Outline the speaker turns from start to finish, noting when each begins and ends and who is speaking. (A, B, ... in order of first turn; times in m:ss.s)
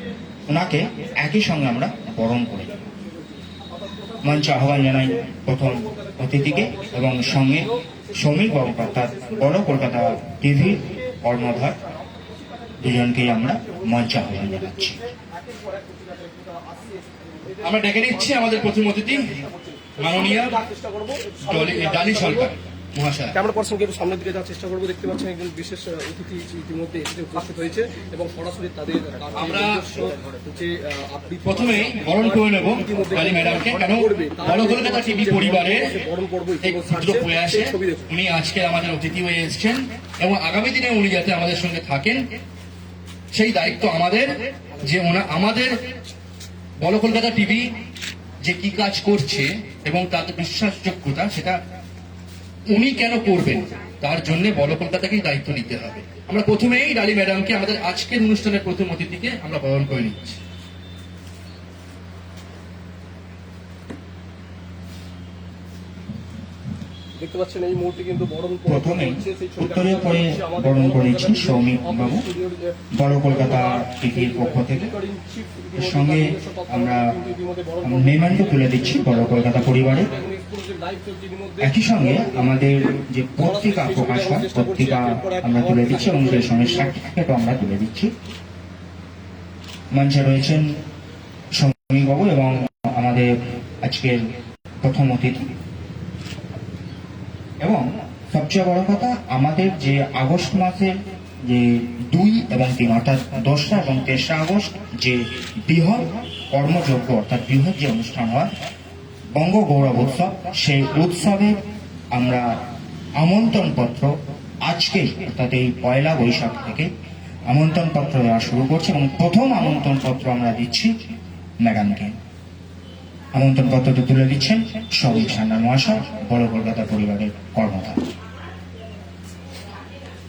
0:00.5-0:02.8 A
0:04.2-0:11.8 A
0:12.8-0:15.1 A
0:15.8-0:17.2 B
0:17.6-0:19.4 C
0:19.5-0:22.5 B
0:20.0-0:20.6 C
0:21.5-0:23.4 C
0:23.3-0:38.1 B
0:29.3-0:29.9 C
0:31.4-0:36.0 C
0:36.6-0:42.3 C
0:43.3-0:45.8 C
0:46.8-0:47.8 C
0:48.4-0:51.6 C
0:52.7-1:00.4 C
1:07.2-1:12.8 B
1:08.7-1:12.2 A
1:12.9-1:14.9 A
1:13.3-1:26.9 B
1:15.8-1:17.0 A
1:17.8-1:20.1 A
1:21.6-1:28.1 A
1:29.9-1:30.8 A
1:31.5-1:34.3 A
1:34.8-1:35.5 A
1:37.6-1:48.5 A
1:49.4-1:52.6 A
1:53.2-1:56.9 A
1:57.5-2:02.2 A
2:03.3-2:08.0 A